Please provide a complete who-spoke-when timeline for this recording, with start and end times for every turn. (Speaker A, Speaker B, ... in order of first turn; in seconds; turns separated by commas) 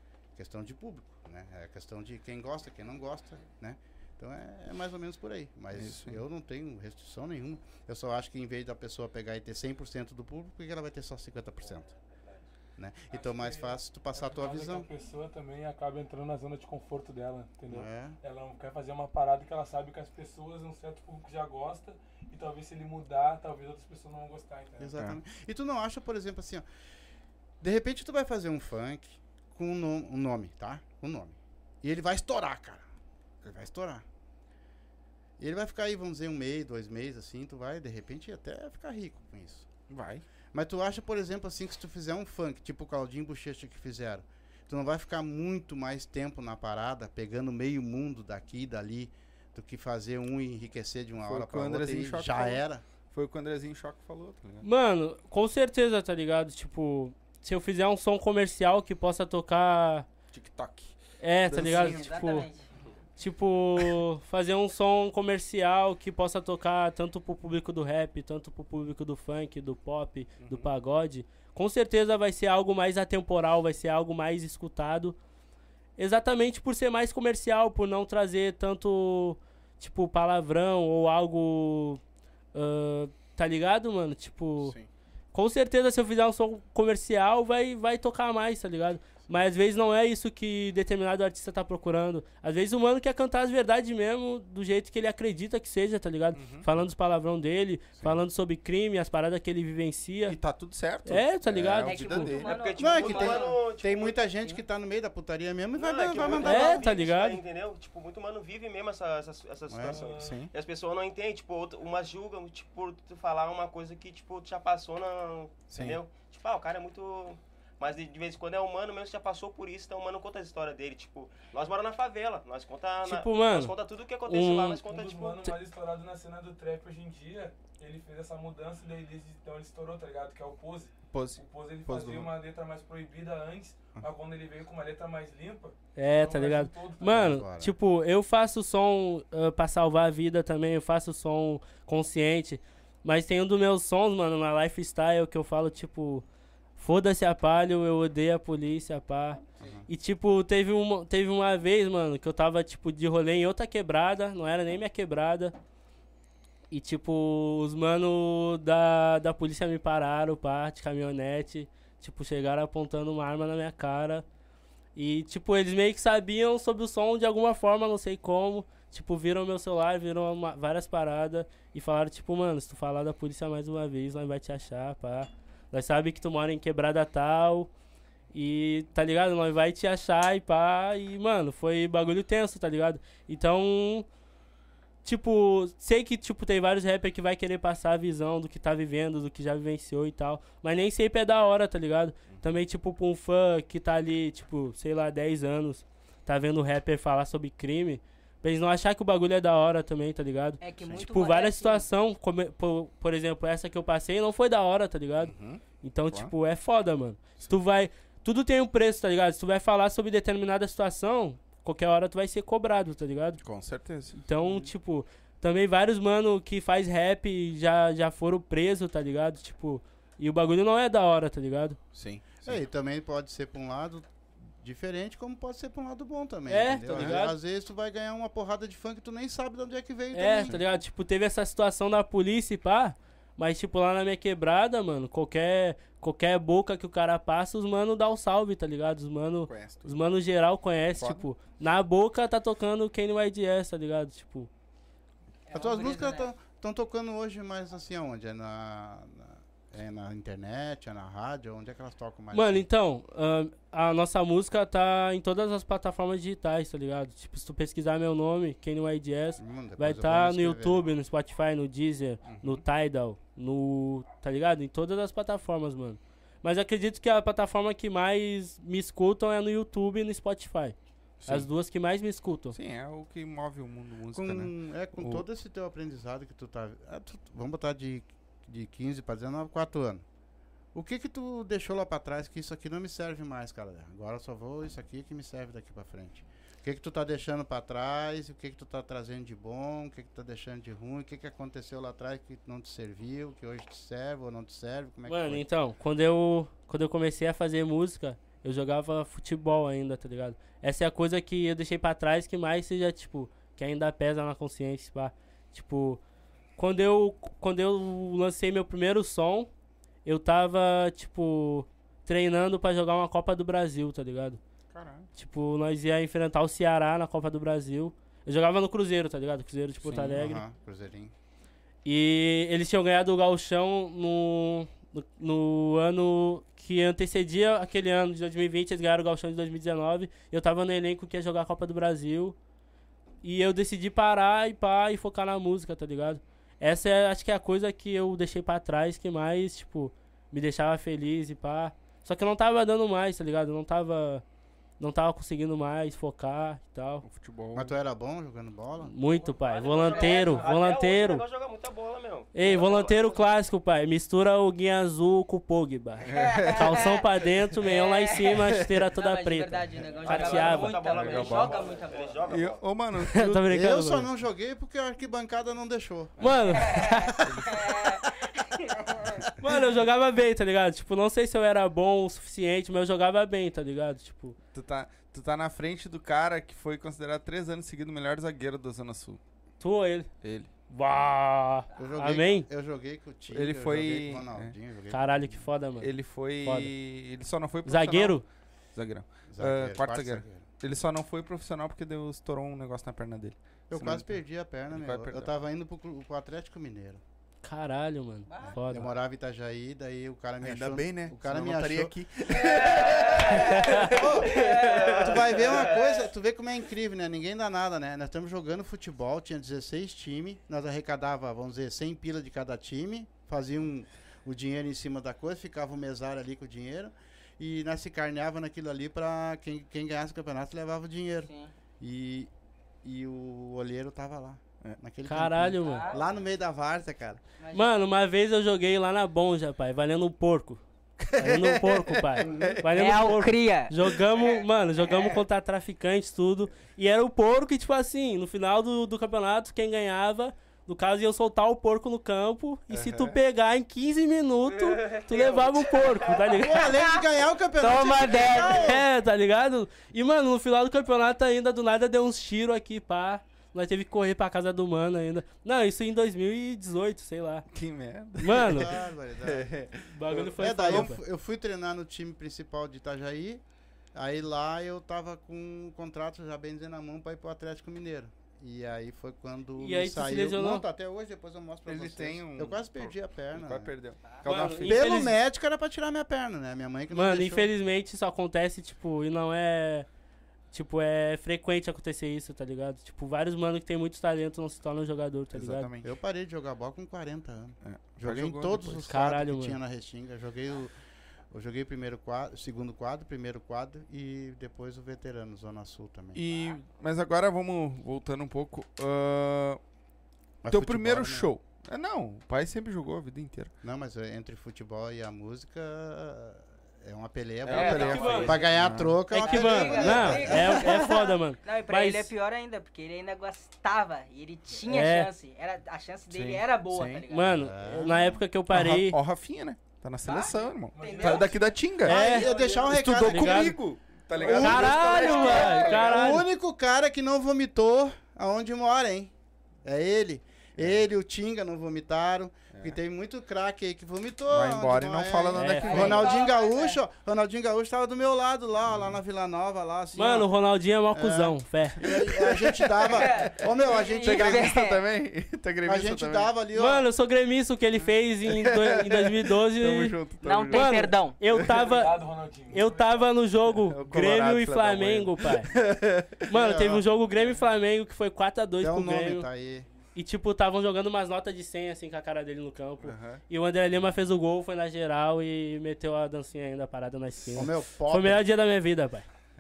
Speaker A: 0.4-11.9, Speaker B: 5.7-6.2, Speaker C: 11.9-12.4, Speaker A: 12.8-14.9, Speaker D: 13.1-24.9, Speaker A: 17.7-18.2, Speaker A: 24.8-26.6, Speaker A: 27.6-32.8, Speaker A: 33.4-34.0, Speaker A: 35.4-39.7, Speaker B: 39.9-40.2, Speaker A: 40.5-52.8, Speaker B: 51.2-54.6, Speaker E: 54.6-60.1, Speaker B: 60.3-61.0, Speaker E: 61.2-62.5, Speaker A: 61.5-62.0, Speaker F: 61.5-62.7, Speaker E: 63.2-75.2, Speaker B: 70.4-70.7, Speaker E: 76.0-82.0, Speaker E: 82.5-84.8, Speaker B: 84.6-84.9, Speaker E: 85.3-100.4, Speaker B: 96.3-96.7, Speaker B: 100.3-102.5, Speaker E: 101.0-102.3, Speaker F: 101.6-103.6, Speaker C: 102.2-104.3, Speaker A: 102.8-106.9, Speaker C: 105.7-125.5, Speaker E: 106.4-107.4, Speaker A: 109.7-110.0, Speaker D: 109.9-110.5, Speaker B: 110.1-110.5, Speaker B: 115.7-116.0, Speaker E: 123.0-123.7, Speaker E: 124.2-124.8, Speaker D: 124.8-137.4, Speaker B: 131.1-132.3, Speaker E: 135.9-146.2, Speaker A: 137.1-137.7, Speaker E: 146.8-155.5, Speaker A: 149.6-149.9, Speaker E: 156.7-164.2, Speaker E: 164.9-177.7, Speaker E: 178.3-184.1, Speaker E: 185.0-213.4, Speaker F: 200.6-201.9, Speaker B: 205.2-206.3, Speaker B: 213.4-214.2, Speaker E: 214.1-221.8, Speaker B: 221.9-222.6, Speaker A: 222.4-230.6, Speaker E: 226.5-227.4, Speaker B: 226.9-227.3, Speaker E: 230.1-244.5, Speaker B: 239.5-240.0, Speaker B: 240.9-241.3, Speaker F: 245.5-246.3, Speaker A: 245.5-252.7, Speaker E: 252.3-270.7, Speaker A: 259.4-260.8, Speaker B: 262.2-262.6, Speaker B: 271.2-271.5, Speaker E: 271.3-272.5, Speaker B: 272.5-275.2, Speaker A: 274.1-280.0, Speaker A: 280.7-295.4, Speaker E: 295.1-306.0, Speaker E: 306.6-309.5, Speaker E: 310.0-314.4, Speaker B: 314.7-315.1, Speaker E: 315.1-320.4, Speaker A: 319.8-321.1, Speaker E: 321.8-332.4, Speaker E: 333.2-344.2, Speaker E: 344.8-347.0, Speaker B: 347.0-347.8, Speaker A: 347.5-348.9, Speaker E: 348.8-351.2, Speaker C: 349.1-353.2, Speaker F: 349.8-350.3, Speaker E: 352.3-360.8, Speaker B: 356.0-356.9, Speaker F: 356.1-357.0, Speaker F: 357.6-362.5, Speaker C: 359.8-362.6, Speaker B: 360.8-361.7, Speaker B: 362.3-363.5, Speaker E: 363.0-364.1, Speaker A: 363.5-366.9, Speaker B: 366.2-366.7, Speaker E: 366.2-367.2, Speaker B: 367.2-367.5, Speaker F: 367.5-368.7, Speaker E: 369.4-374.4, Speaker B: 374.5-379.2, Speaker E: 379.6-380.1, Speaker B: 380.2-380.5, Speaker E: 380.7-382.5, Speaker A: 381.7-385.4, Speaker B: 383.3-384.5, Speaker E: 384.9-385.9, Speaker B: 385.8-388.2, Speaker E: 386.4-386.7, Speaker E: 387.6-388.2, Speaker B: 388.7-394.1, Speaker A: 389.3-390.5, Speaker A: 393.7-397.0, Speaker B: 394.7-395.3, Speaker E: 397.4-398.9, Speaker F: 398.3-398.6, Speaker A: 398.4-401.9, Speaker B: 400.4-404.0, Speaker F: 402.3-406.0, Speaker A: 403.2-422.3, Speaker E: 403.6-403.8, Speaker C: 403.7-405.8, Speaker A: 422.8-427.2, Speaker E: 425.1-425.9, Speaker F: 425.6-426.0, Speaker F: 427.4-427.7, Speaker E: 427.5-430.6, Speaker B: 431.0-433.1, Speaker E: 431.1-446.7, Speaker A: 432.2-432.6, Speaker F: 432.6-435.1, Speaker B: 442.7-443.2, Speaker C: 445.1-445.9, Speaker F: 445.1-447.0, Speaker A: 446.3-448.8, Speaker F: 447.6-448.8, Speaker E: 448.4-457.5, Speaker B: 457.5-461.0, Speaker E: 458.2-458.7, Speaker A: 458.3-459.5, Speaker E: 459.9-461.0, Speaker A: 460.4-463.4, Speaker A: 463.9-473.7, Speaker E: 469.6-470.6, Speaker B: 471.6-475.0, Speaker E: 474.2-475.1, Speaker A: 474.6-477.5, Speaker E: 476.9-479.9, Speaker E: 480.5-485.7, Speaker B: 485.3-485.9, Speaker A: 485.8-490.7, Speaker B: 487.6-488.9, Speaker E: 488.9-489.6, Speaker A: 491.3-496.2, Speaker B: 496.1-499.6, Speaker A: 500.4-501.3, Speaker B: 500.5-503.5, Speaker A: 503.6-511.0, Speaker B: 507.4-509.0, Speaker F: 507.5-508.2, Speaker E: 507.5-508.4, Speaker E: 509.1-512.1, Speaker F: 509.2-517.5, Speaker B: 509.9-510.4, Speaker E: 514.7-515.1, Speaker B: 516.1-517.0, Speaker E: 517.1-519.0, Speaker A: 517.4-518.0, Speaker B: 518.5-522.0, Speaker F: 520.0-521.4, Speaker D: 520.7-521.3, Speaker A: 521.8-523.5, Speaker E: 521.8-522.4, Speaker F: 521.9-522.8, Speaker B: 522.7-526.2, Speaker E: 522.9-523.5, Speaker A: 524.1-529.1, Speaker E: 524.3-526.2, Speaker F: 524.7-525.9, Speaker A: 529.6-540.3, Speaker B: 530.6-530.9, Speaker B: 532.5-532.8, Speaker B: 534.3-536.1, Speaker E: 535.3-536.0, Speaker F: 535.5-536.8, Speaker B: 538.7-539.0, Speaker E: 539.9-541.8, Speaker A: 540.9-544.5, Speaker B: 541.8-546.3, Speaker F: 542.8-544.8, Speaker A: 545.6-546.9, Speaker E: 546.5-551.9, Speaker B: 548.2-551.7, Speaker F: 550.2-551.2, Speaker D: 551.5-553.0, Speaker E: 552.5-555.5, Speaker B: 553.5-556.3, Speaker E: 556.3-559.3, Speaker A: 556.3-556.8, Speaker A: 558.6-559.7, Speaker E: 559.9-569.1, Speaker B: 562.8-563.2, Speaker A: 567.3-568.2